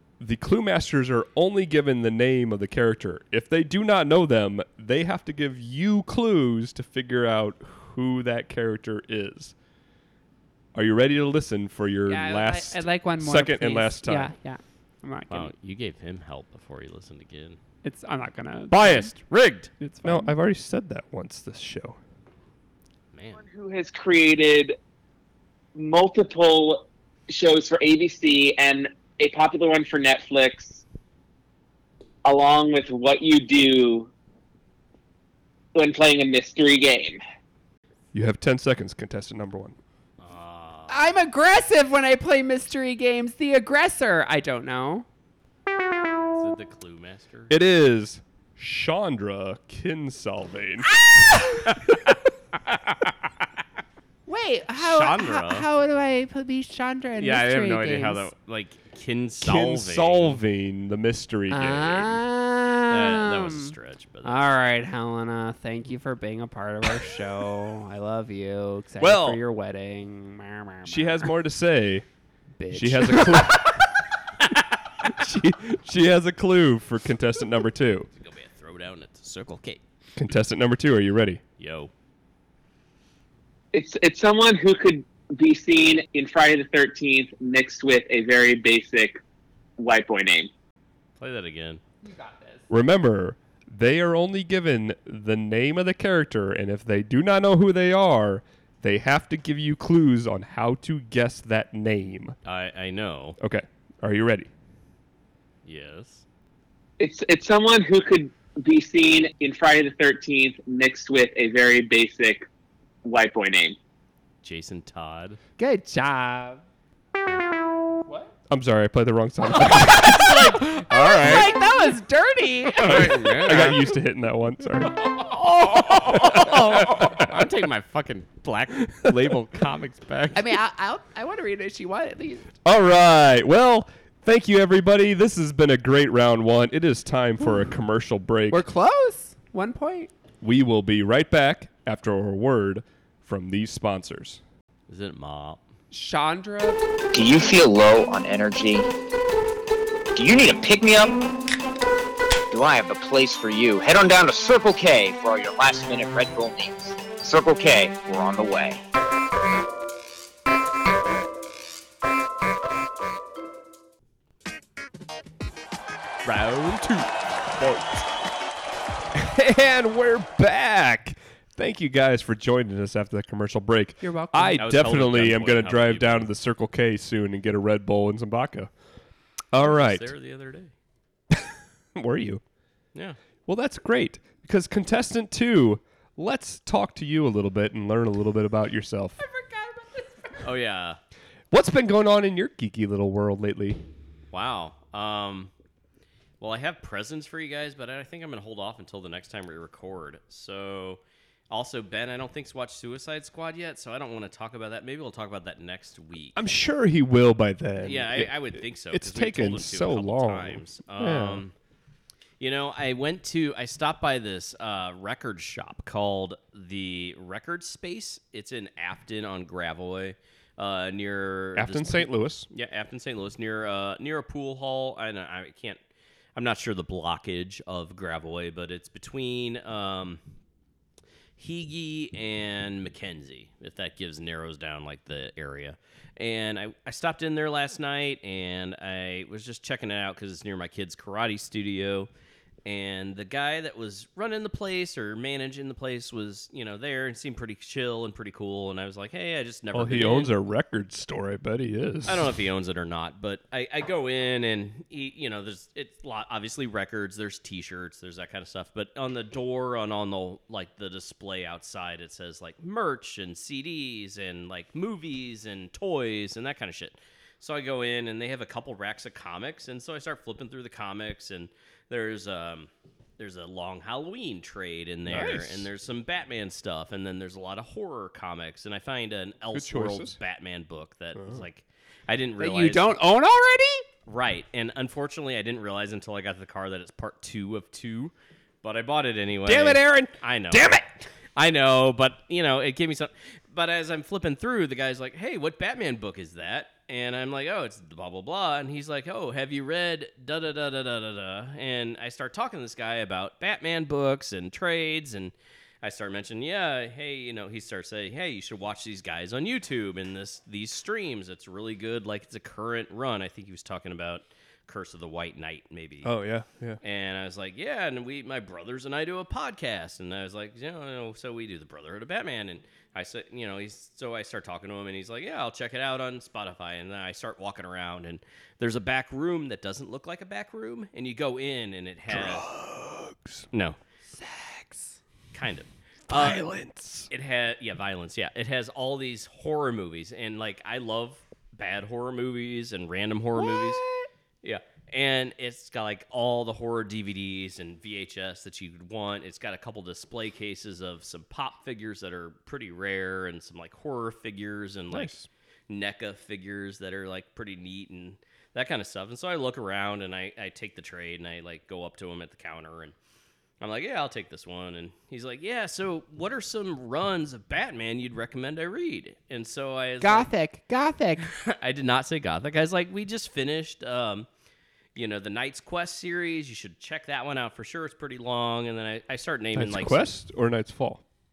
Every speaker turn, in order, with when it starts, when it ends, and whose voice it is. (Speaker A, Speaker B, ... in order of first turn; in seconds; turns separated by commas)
Speaker A: 0.2-9.5, Speaker A: 10.7-14.3, Speaker B: 12.1-15.5, Speaker C: 15.3-17.6, Speaker B: 17.8-19.1, Speaker A: 18.7-22.0, Speaker B: 19.8-20.3, Speaker C: 23.1-23.4, Speaker D: 23.3-24.8, Speaker D: 25.7-30.8, Speaker D: 32.2-34.1, Speaker D: 35.7-37.2, Speaker A: 38.1-39.8, Speaker C: 40.2-41.0, Speaker B: 40.9-45.0, Speaker C: 46.4-47.5, Speaker A: 47.5-50.9, Speaker B: 51.0-51.6, Speaker C: 52.7-53.1, Speaker B: 54.3-58.3, Speaker C: 54.8-55.7, Speaker C: 57.2-60.4, Speaker A: 59.4-62.2, Speaker B: 61.5-71.3, Speaker C: 62.9-64.4, Speaker A: 69.0-69.4, Speaker A: 70.8-72.0, Speaker B: 72.6-73.7, Speaker A: 72.7-73.8, Speaker A: 75.0-78.1, Speaker C: 78.2-79.8, Speaker A: 80.2-81.4, Speaker C: 81.6-81.9, Speaker D: 83.7-89.2, Speaker D: 89.8-90.5, Speaker C: 91.2-91.8, Speaker B: 92.0-92.6, Speaker A: 92.7-102.3, Speaker C: 102.4-103.4, Speaker A: 103.4-104.5, Speaker C: 105.6-106.2, Speaker D: 107.0-112.4, Speaker D: 113.0-113.8, Speaker C: 114.4-115.4, Speaker B: 115.6-116.6, Speaker A: 118.5-120.6, Speaker B: 119.8-123.3, Speaker C: 119.9-121.5, Speaker A: 121.1-121.4, Speaker C: 122.8-123.9, Speaker A: 122.8-124.9, Speaker C: 125.0-130.6, Speaker A: 126.0-127.3, Speaker A: 129.1-129.3, Speaker B: 130.3-132.5, Speaker A: 132.6-138.6, Speaker B: 138.5-140.1, Speaker A: 140.4-144.4, Speaker C: 144.9-145.6, Speaker B: 145.9-146.8, Speaker E: 147.1-148.9, Speaker E: 150.1-151.1, Speaker E: 152.5-158.8, Speaker C: 166.2-168.0, Speaker A: 169.1-178.7, Speaker B: 174.0-174.7, Speaker C: 174.6-176.3, Speaker A: 179.5-180.1, Speaker C: 179.6-180.7, Speaker A: 181.3-182.4, Speaker A: 183.5-189.2, Speaker B: 189.2-190.5, Speaker C: 190.4-191.0, Speaker A: 191.5-193.8, Speaker C: 194.3-195.5, Speaker C: 196.4-206.4, Speaker A: 206.3-211.4, Speaker C: 207.8-211.5, Speaker C: 212.4-225.8, Speaker A: 221.6-222.5, Speaker C: 226.3-230.2, Speaker C: 231.4-242.1, Speaker C: 242.6-250.3, Speaker A: 249.7-252.3, Speaker C: 252.1-282.9, Speaker A: 275.1-275.7, Speaker A: 279.5-280.2, Speaker A: 281.1-281.4, Speaker B: 282.4-283.8, Speaker C: 284.1-290.8, Speaker B: 289.5-290.1, Speaker A: 289.5-289.8, Speaker A: 290.5-290.8, Speaker C: 291.4-316.1, Speaker A: 316.0-316.8, Speaker C: 316.8-332.4, Speaker A: 332.1-333.5, Speaker B: 334.1-335.0, Speaker C: 335.3-336.4, Speaker A: 336.1-337.1, Speaker C: 337.1-343.8, Speaker B: 343.4-344.1, Speaker C: 344.4-355.2, Speaker A: 354.9-355.3, Speaker C: 355.7-362.9, Speaker C: 363.6-370.3, Speaker B: 370.0-371.3, Speaker C: 371.3-374.3, Speaker C: 374.9-380.1, Speaker A: 379.5-381.0